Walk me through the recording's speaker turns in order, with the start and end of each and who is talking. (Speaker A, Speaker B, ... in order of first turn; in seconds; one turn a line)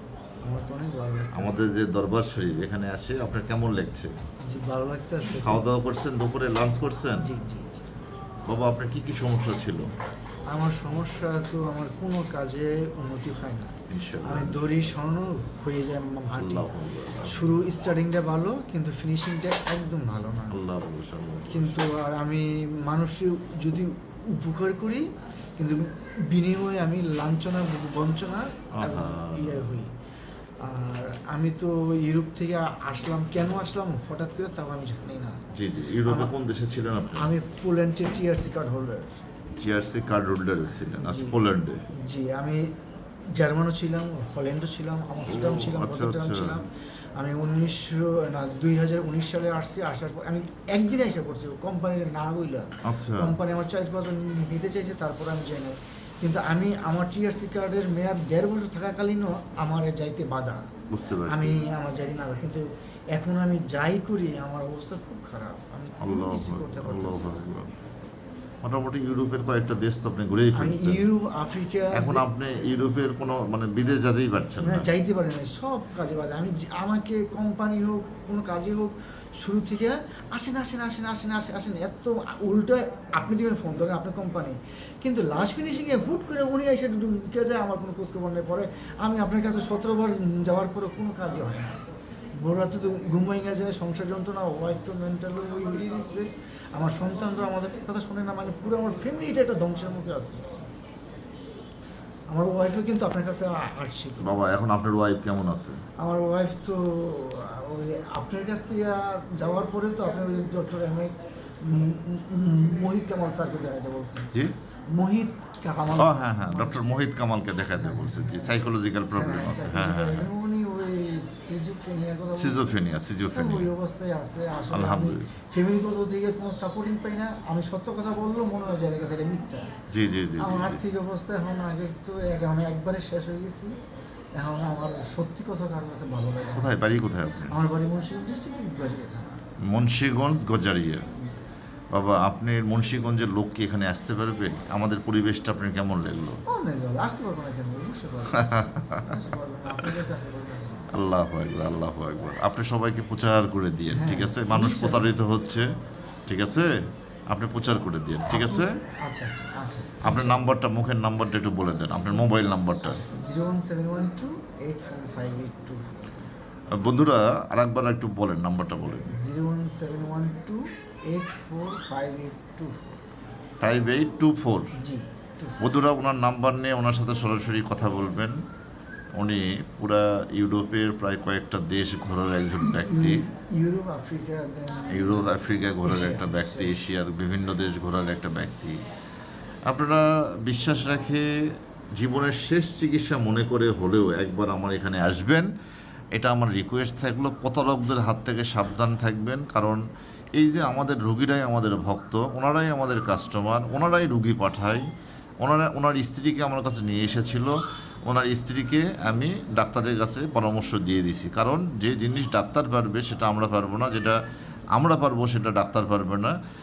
Speaker A: 0.5-1.8
Speaker B: 1.4-4.1
Speaker A: 4.5-5.6
Speaker B: 5.4-7.2
Speaker A: 7.2-7.9
Speaker B: 8.5-9.9
Speaker A: 10.5-20.6
Speaker B: 13.9-14.7
Speaker B: 16.4-17.6
Speaker B: 20.5-21.8
Speaker A: 21.5-25.1
Speaker A: 25.6-29.9
Speaker B: 28.8-29.8
Speaker A: 30.6-35.4
Speaker B: 35.5-37.3
Speaker A: 36.0-36.3
Speaker A: 37.1-39.2
Speaker B: 39.6-41.8
Speaker A: 40.9-41.4
Speaker A: 42.0-42.8
Speaker A: 43.4-60.6
Speaker B: 45.3-46.6
Speaker B: 52.8-53.3
Speaker B: 60.9-61.6
Speaker A: 61.3-67.5
Speaker B: 66.0-67.7
Speaker B: 68.6-71.1
Speaker A: 70.5-72.2
Speaker B: 71.9-74.9
Speaker A: 74.6-91.8
Speaker A: 92.4-100.5
Speaker A: 102.3-104.3
Speaker B: 104.2-105.8
Speaker A: 106.0-114.3
Speaker A: 114.9-116.8
Speaker B: 116.0-120.3
Speaker A: 117.8-118.6
Speaker A: 119.1-129.7
Speaker B: 122.3-123.7
Speaker B: 124.7-125.3
Speaker B: 129.9-130.8
Speaker A: 130.4-133.8
Speaker A: 134.3-136.7
Speaker B: 136.6-137.5
Speaker A: 137.5-139.4
Speaker B: 139.7-141.1
Speaker B: 141.9-146.4
Speaker A: 146.5-150.9
Speaker B: 148.3-149.2
Speaker B: 150.9-155.7
Speaker A: 153.9-155.1
Speaker B: 156.3-156.8
Speaker B: 157.3-158.8
Speaker A: 158.2-160.5
Speaker B: 160.0-163.0
Speaker A: 162.8-166.2
Speaker B: 166.8-169.1
Speaker A: 169.1-173.0
Speaker B: 173.6-174.8
Speaker A: 174.8-175.6
Speaker B: 175.6-178.4
Speaker B: 179.2-183.2
Speaker A: 182.6-186.8
Speaker B: 184.9-188.8
Speaker B: 189.7-191.3
Speaker B: 192.0-195.5
Speaker B: 196.2-199.8
Speaker B: 200.4-204.8
Speaker B: 205.4-207.5
Speaker B: 208.1-214.2
Speaker B: 214.8-216.3